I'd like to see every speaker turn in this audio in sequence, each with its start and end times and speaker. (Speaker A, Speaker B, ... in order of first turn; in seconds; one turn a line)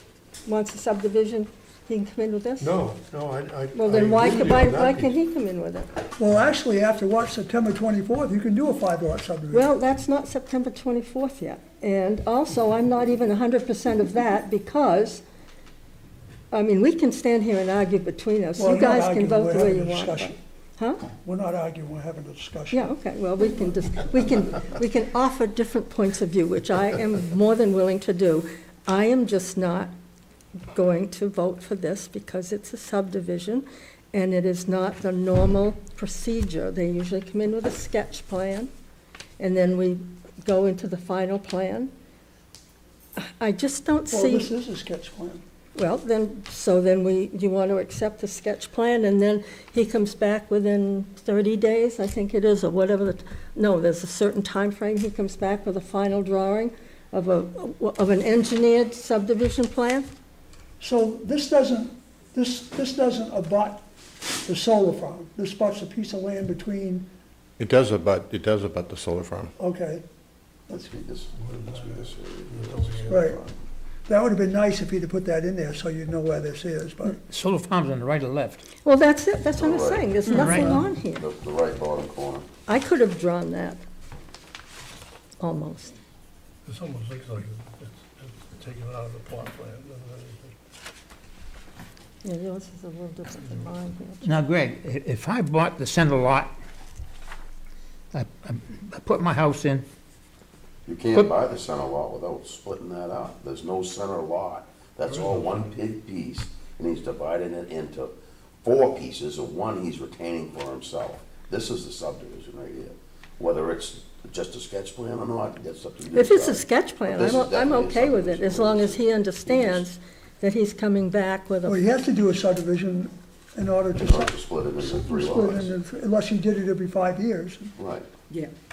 Speaker A: 0.5-2.7
Speaker B: 2.6-5.2
Speaker A: 3.7-5.9
Speaker C: 6.2-9.7
Speaker A: 9.5-15.2
Speaker A: 16.5-21.0
Speaker C: 18.6-20.4
Speaker C: 21.2-22.9
Speaker A: 22.7-29.9
Speaker A: 30.7-38.7
Speaker A: 39.4-41.9
Speaker A: 43.2-44.5
Speaker C: 44.1-45.4
Speaker A: 45.7-60.1
Speaker C: 60.8-63.8
Speaker C: 64.4-67.1
Speaker D: 67.6-69.5
Speaker C: 69.6-70.0
Speaker E: 70.7-73.5
Speaker C: 71.6-72.1
Speaker B: 72.5-73.3
Speaker C: 73.0-73.4
Speaker C: 74.0-77.2
Speaker F: 77.1-78.6
Speaker A: 78.8-81.2
Speaker E: 79.5-80.3
Speaker F: 80.3-80.7
Speaker E: 81.1-82.5
Speaker A: 82.7-83.8
Speaker A: 85.4-85.9
Speaker B: 86.6-90.5
Speaker A: 92.2-94.3
Speaker F: 94.2-96.5
Speaker F: 98.1-99.8
Speaker E: 100.8-119.9
Speaker B: 105.0-105.7
Speaker A: 116.1-121.8
Speaker C: 121.6-127.7
Speaker E: 124.0-125.8
Speaker E: 127.8-128.1